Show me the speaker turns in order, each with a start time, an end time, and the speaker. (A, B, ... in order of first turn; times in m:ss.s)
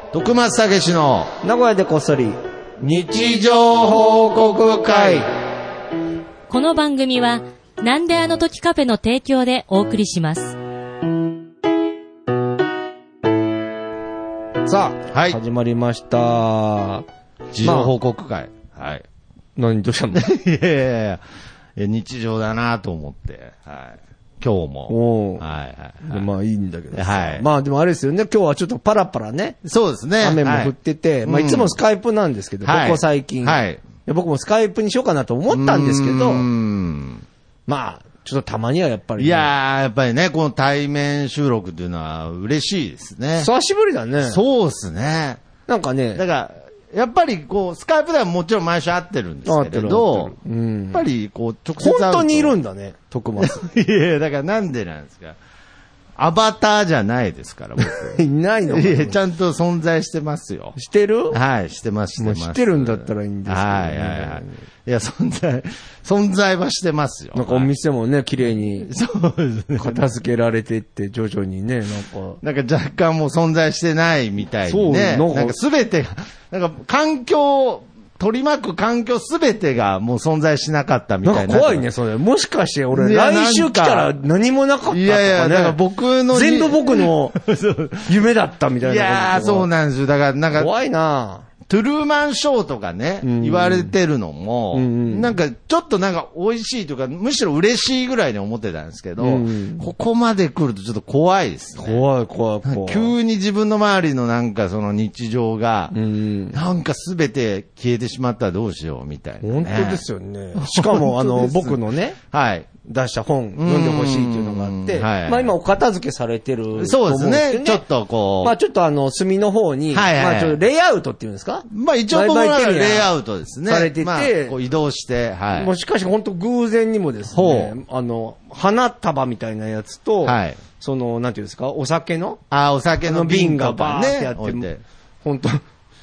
0:00.1-0:01.3 A
0:01.4-0:02.4 B
0:02.8-0:05.3 A
0:06.5-0:10.5 C
0:14.6-0:17.0 B
0:15.1-0:15.4 A
0:17.5-0:19.0 A
0:17.6-0:17.9 B
0:19.6-0:20.2 B
0:20.1-0:21.2 A
0:21.8-0:26.3 A
0:24.9-0:25.4 B
0:26.0-0:29.6 B
0:26.9-0:27.4 A
0:29.6-0:30.7 A
0:30.2-0:36.4 B
0:31.2-0:31.8 A
0:32.6-0:33.8 A
0:35.5-0:37.2 A
0:37.7-0:39.5 B
0:39.2-0:43.5 A
0:43.4-0:44.4 B
0:44.2-0:45.4 A
0:45.7-0:46.2 B
0:46.1-0:50.3 A
0:49.4-0:51.0 B
0:50.9-0:52.6 A
0:51.8-0:53.6 B
0:53.4-0:55.4 A
0:56.2-0:58.2 A
0:57.8-0:59.2 B
0:58.7-1:00.8 A
1:00.8-1:01.4 B
1:01.3-1:07.7 A
1:02.2-1:04.5 B
1:07.3-1:08.9 B
1:08.9-1:10.1 A
1:09.8-1:12.4 B
1:12.4-1:21.8 A
1:14.6-1:15.6 B
1:21.2-1:25.8 B
1:22.9-1:24.2 A
1:24.9-1:28.1 A
1:26.3-1:27.4 B
1:28.0-1:29.7 B
1:28.8-1:30.7 A
1:30.6-1:31.5 B
1:31.7-1:42.0 A
1:33.2-1:33.9 B
1:34.7-1:35.3 B
1:39.2-1:39.9 B
1:41.8-1:43.1 B
1:42.6-1:45.9 A
1:45.9-1:46.6 B
1:46.5-1:50.0 A
1:49.4-1:52.2 B
1:50.6-1:51.8 A
1:52.3-1:52.7 A
1:52.8-1:57.8 B
1:53.6-1:55.5 A
1:56.8-1:58.6 A
1:58.4-2:03.1 B
1:59.9-2:00.6 A
2:01.7-2:05.7 A
2:03.7-2:04.6 B
2:05.5-2:12.4 B
2:07.3-2:07.7 A
2:10.2-2:10.6 A
2:12.5-2:14.8 A
2:13.0-2:14.7 B
2:15.2-2:15.6 B